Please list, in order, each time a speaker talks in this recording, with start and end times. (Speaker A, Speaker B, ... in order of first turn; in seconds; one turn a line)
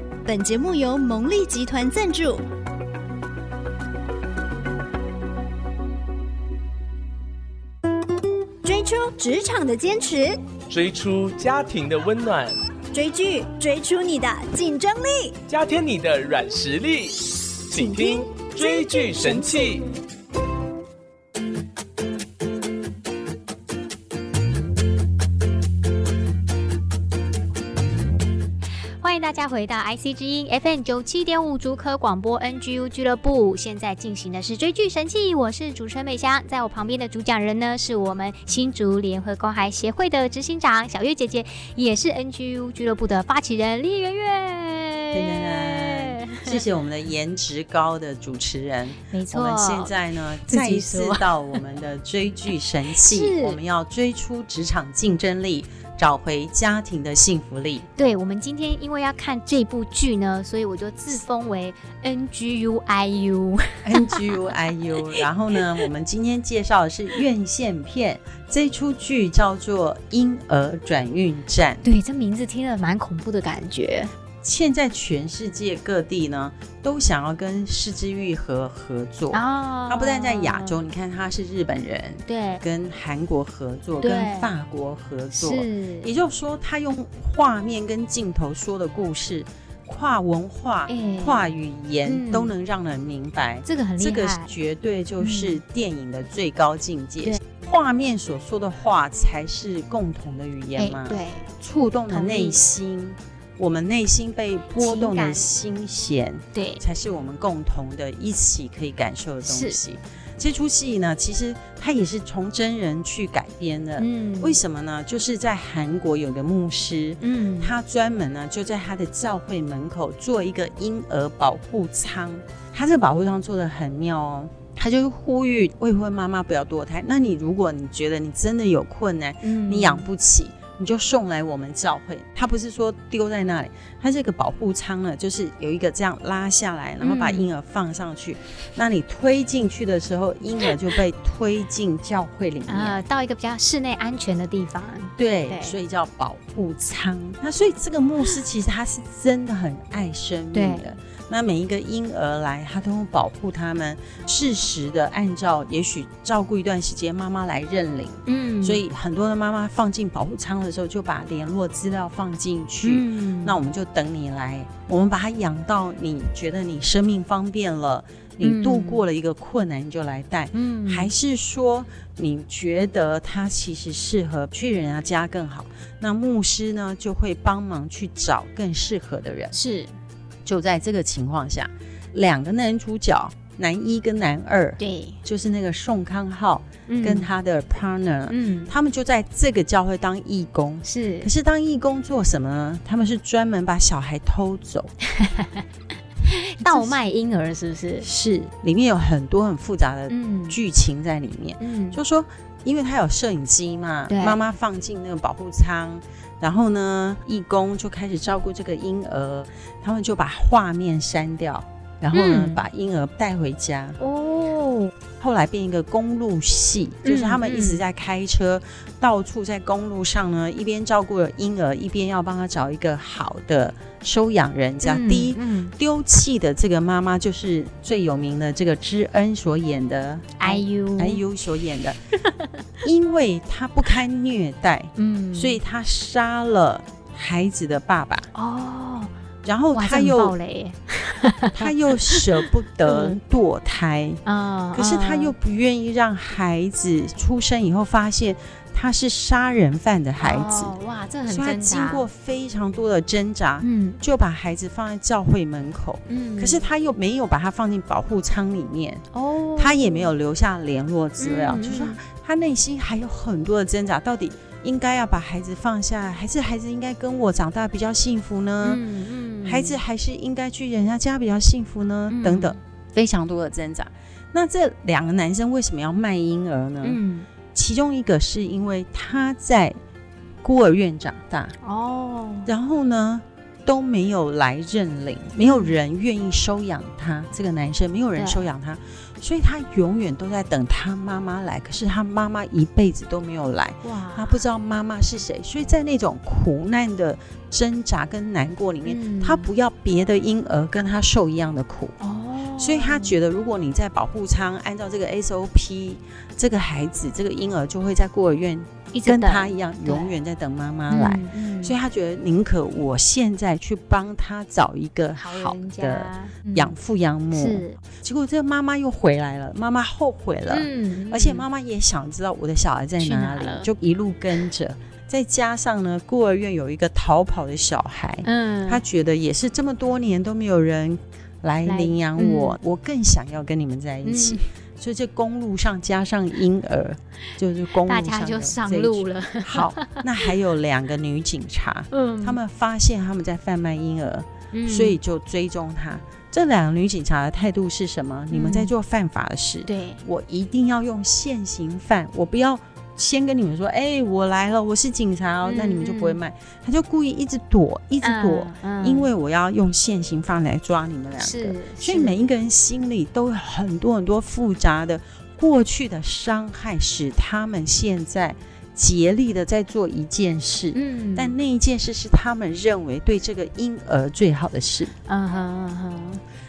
Speaker A: 0.2-2.4
Speaker A: 8.6-10.5
Speaker B: 10.7-12.6
Speaker A: 12.9-15.4
Speaker B: 15.5-19.9
Speaker A: 17.7-19.7
Speaker C: 29.0-46.6
Speaker D: 45.1-57.9
Speaker C: 49.0-50.0
Speaker C: 50.5-51.6
Speaker C: 52.9-53.6
Speaker C: 58.0-64.5
Speaker D: 63.8-71.9
Speaker C: 71.8-74.1
Speaker D: 74.4-143.0
Speaker C: 79.3-80.8
Speaker C: 82.3-82.6
Speaker C: 84.0-84.5
Speaker C: 85.3-86.1
Speaker C: 90.9-91.5
Speaker C: 92.0-92.5
Speaker C: 93.6-94.5
Speaker C: 95.2-95.6
Speaker C: 100.8-101.5
Speaker C: 102.1-102.6
Speaker C: 104.8-105.5
Speaker C: 106.5-106.8
Speaker C: 109.4-109.8
Speaker C: 114.0-114.6
Speaker C: 117.2-117.8
Speaker C: 129.4-130.1
Speaker C: 137.0-137.5
Speaker C: 142.7-145.8
Speaker D: 145.2-179.6
Speaker C: 150.5-150.9
Speaker C: 158.3-158.8
Speaker C: 162.8-163.6
Speaker C: 168.4-169.0
Speaker C: 170.5-171.1
Speaker C: 179.5-179.9
Speaker D: 180.4-194.9
Speaker C: 184.8-185.2
Speaker C: 186.9-187.3
Speaker C: 188.3-188.7
Speaker C: 190.8-191.3
Speaker C: 195.1-195.7
Speaker C: 196.2-198.1
Speaker D: 196.7-197.0
Speaker D: 198.0-214.0
Speaker C: 200.1-200.6
Speaker C: 201.6-202.0
Speaker C: 204.1-204.4
Speaker C: 212.1-212.6
Speaker C: 214.0-214.9
Speaker D: 215.2-232.1
Speaker C: 217.0-217.8
Speaker C: 224.8-225.7
Speaker C: 230.4-231.2
Speaker D: 232.8-238.3
Speaker C: 235.0-235.6
Speaker C: 238.3-239.1
Speaker D: 239.4-240.4
Speaker C: 239.7-243.2
Speaker D: 241.5-244.2
Speaker C: 244.2-245.3
Speaker D: 244.7-250.7
Speaker C: 250.2-252.1
Speaker D: 251.3-259.0
Speaker C: 253.6-254.0
Speaker C: 256.1-256.7
Speaker C: 259.1-260.1
Speaker D: 259.6-268.8
Speaker C: 261.2-262.0
Speaker C: 268.6-269.8
Speaker D: 269.4-277.0
Speaker C: 272.1-272.6
Speaker C: 276.8-277.3
Speaker D: 277.5-279.8
Speaker D: 280.4-281.5
Speaker C: 281.6-282.5
Speaker D: 282.5-301.9
Speaker C: 285.4-285.8
Speaker C: 288.2-288.4
Speaker C: 293.8-294.5
Speaker C: 298.9-299.5
Speaker C: 302.0-303.2
Speaker D: 302.6-374.9
Speaker C: 308.9-310.1
Speaker C: 310.9-311.8
Speaker C: 315.2-316.8
Speaker C: 317.3-317.8
Speaker C: 320.5-321.5
Speaker C: 323.0-323.7
Speaker C: 328.2-328.8
Speaker C: 331.6-332.6
Speaker C: 334.0-334.4
Speaker C: 337.7-340.3
Speaker C: 341.9-342.4
Speaker C: 344.5-345.0
Speaker C: 348.3-348.7
Speaker C: 349.7-350.1
Speaker C: 355.4-356.2
Speaker C: 358.0-359.1
Speaker C: 361.2-362.3
Speaker C: 370.7-371.4
Speaker C: 375.1-376.2